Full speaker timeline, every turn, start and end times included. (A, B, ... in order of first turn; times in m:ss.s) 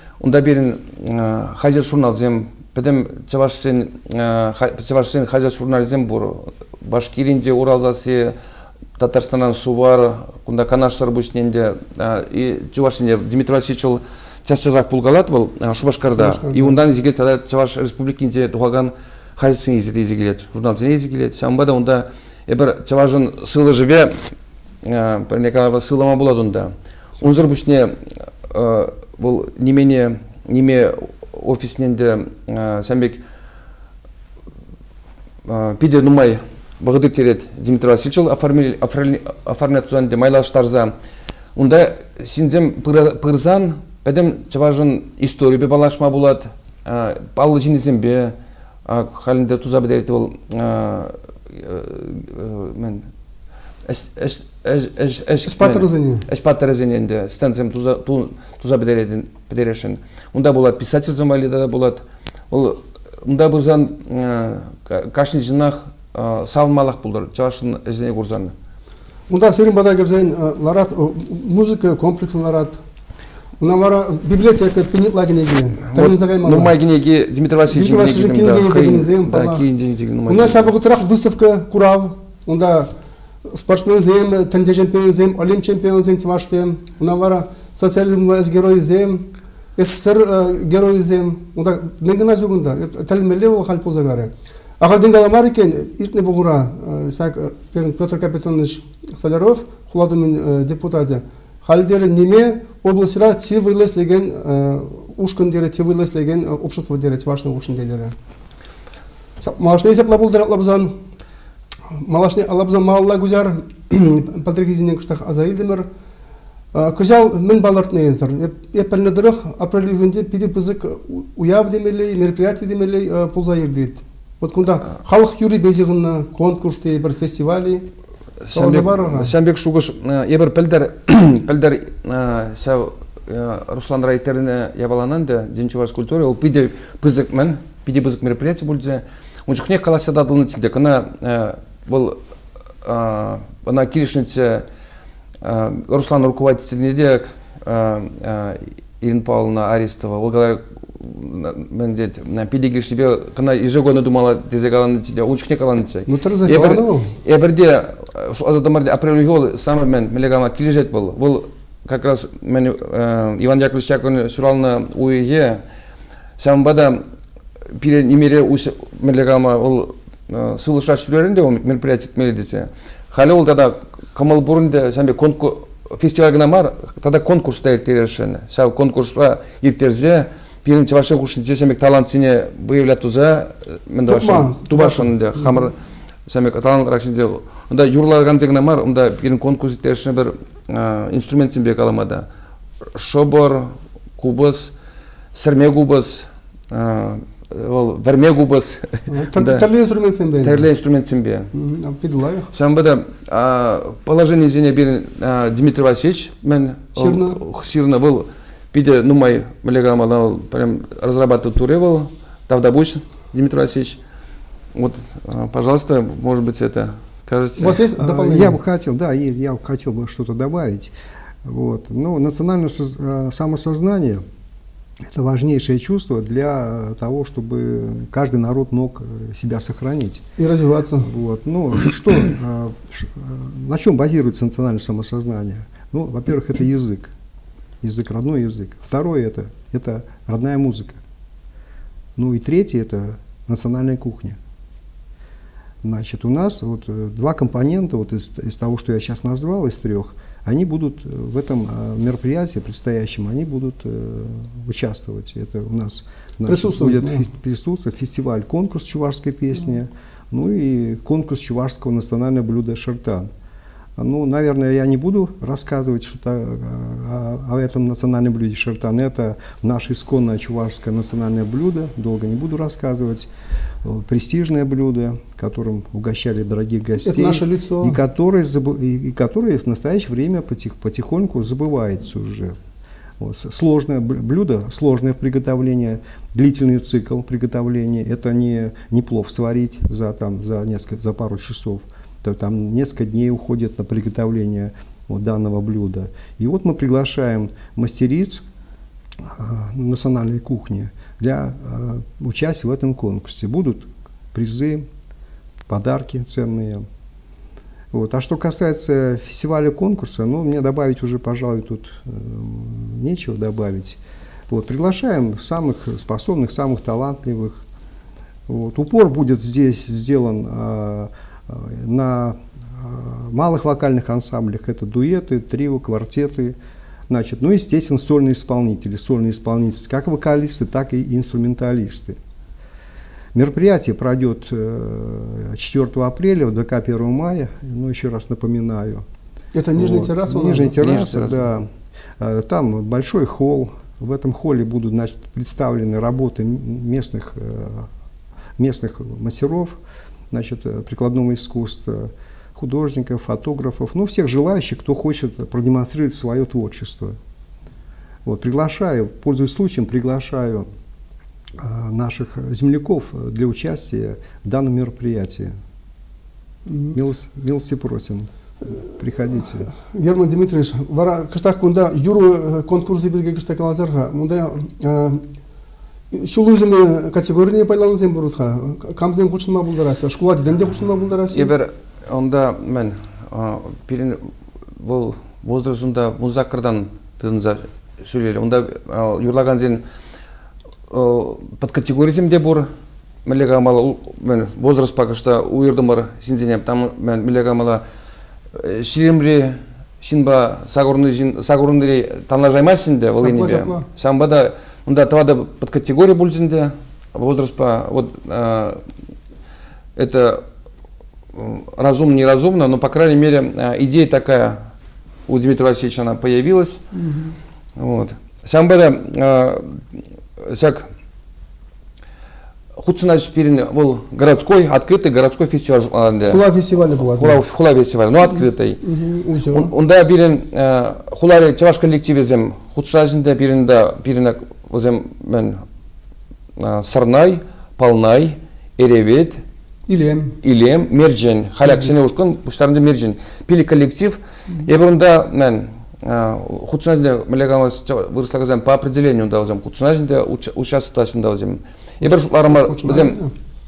0:00.2-0:08.4 A
0:09.0-0:24.2 A
0:16.1-0:16.8 B
0:24.8-0:33.2 A
0:35.4-0:40.9 A
0:41.6-0:48.3 A
0:48.8-0:53.0 A
0:53.9-1:08.5 A
0:55.4-0:56.2 B
1:09.3-1:12.8 B
1:13.6-1:16.7 B
1:15.8-1:20.7 A
1:17.7-1:19.6 B
1:20.3-1:22.9 B
1:23.4-1:48.1 B
1:49.4-1:51.0 B
1:51.9-1:55.9 B
1:56.7-2:07.9 B
2:08.4-2:22.2 A
2:08.5-2:09.3 B
2:22.8-2:24.6 A
2:25.4-2:45.6 A
2:36.1-2:37.2 B
2:46.4-2:47.0 A
2:47.8-3:05.7 A
3:04.1-3:05.6 B
3:06.2-3:12.3 A
3:12.9-3:14.7 A
3:15.3-3:19.7 A
3:19.1-3:20.7 B
3:20.4-3:21.5 A
3:21.5-3:22.5 B
3:22.5-3:34.0 A
3:27.0-3:27.4 B
3:34.7-3:37.8 A
3:37.6-3:38.6 B
3:38.0-3:40.9 C
3:41.4-3:44.2 C
3:45.0-3:50.2 C
3:50.4-3:51.1 B
3:51.0-3:57.1 C
3:57.8-4:01.0 C
4:02.2-4:04.4 C
4:05.8-4:23.3 C
4:16.5-4:17.2 B
4:24.0-4:33.3 C
4:33.8-4:42.5 C
4:37.0-4:38.0 B
4:43.2-4:58.4 C
4:59.2-5:04.8 C
5:05.7-5:06.8 C
5:07.9-5:17.6 C
5:18.5-5:26.5 C
5:27.1-5:32.2 C
5:33.3-5:39.0 C
5:39.5-5:40.8 B
5:39.8-5:41.7 C
5:40.8-5:41.4 A
5:42.2-5:47.9 C
5:48.6-5:49.8 C
5:50.3-5:57.1 C
5:58.2-6:00.7 C
6:01.6-6:05.5 C
6:06.7-6:07.0 B
6:06.9-6:09.7 C
6:09.4-6:15.2 B
6:16.1-6:21.5 B
6:21.3-6:24.2 A
6:24.8-6:29.8 A
6:30.9-6:32.7 A
6:33.2-6:37.8 A
6:38.5-6:48.8 A
6:43.2-6:43.8 B
6:50.0-6:50.4 A
6:51.3-6:54.6 A
6:55.3-6:56.8 A
6:56.9-6:57.4 B
6:57.8-7:00.9 A
7:02.8-7:06.4 A
7:06.2-7:07.4 B
7:07.0-7:08.8 A
7:08.8-7:09.7 B
7:09.5-7:15.6 A
7:16.6-7:19.4 A
7:19.9-7:20.4 B
7:20.4-7:33.2 A
7:32.0-7:33.3 B